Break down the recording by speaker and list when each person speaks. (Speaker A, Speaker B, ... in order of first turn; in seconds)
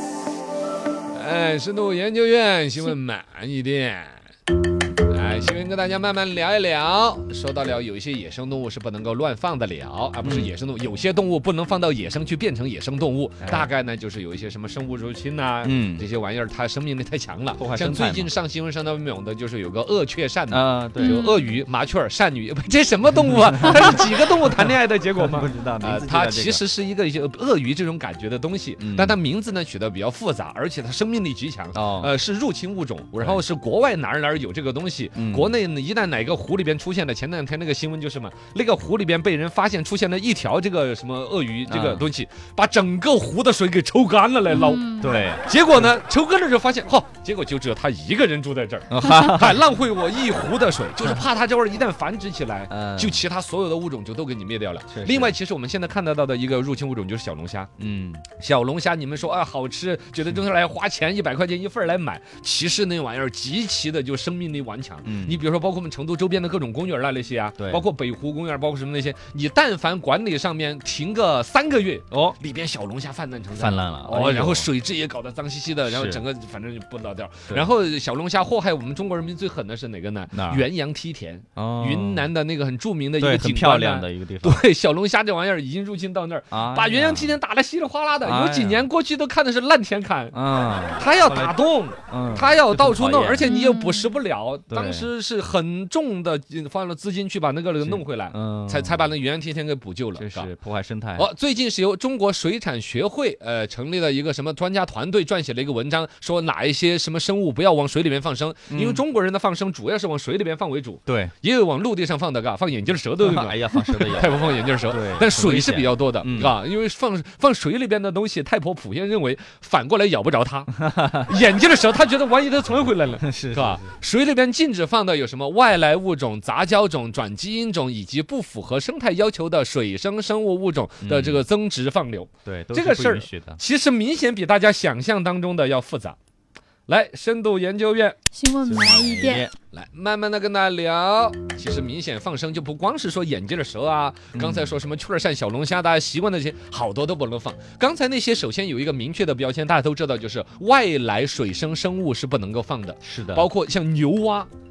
Speaker A: 1.1-4.2, 5.1-57.7, 58.3-90.4, 91.0-100.5, 101.2-136.2, 136.9-138.2, 139.7-154.5
Speaker B: 10.2-10.5, 13.4-13.7, 15.6-16.1, 17.5-18.3, 20.5-21.3, 23.6-23.9, 25.2-26.6, 28.8-29.2, 31.7-32.1, 33.2-33.4, 35.1-35.6, 41.7-42.1, 45.0-45.6, 48.9-49.6, 52.7-53.3, 54.9-55.4, 57.8-58.3, 65.0-65.4, 67.6-67.9, 72.1-72.4, 73.5-74.7, 75.8-76.2, 80.3-80.7, 81.6-82.3, 83.2-84.7, 86.5-87.4, 88.2-88.9, 90.3-93.7, 94.7-95.1, 97.8-99.1, 100.2-101.3, 108.7-109.0, 111.1-111.3, 113.2-116.6, 120.8-121.3, 123.1-123.9, 131.0-131.4, 132.4-133.6, 138.7-139.5, 144.3-144.8, 153.0-153.5
Speaker C: 21.0-21.5, 44.6-45.3, 93.5-94.1, 138.3-139.5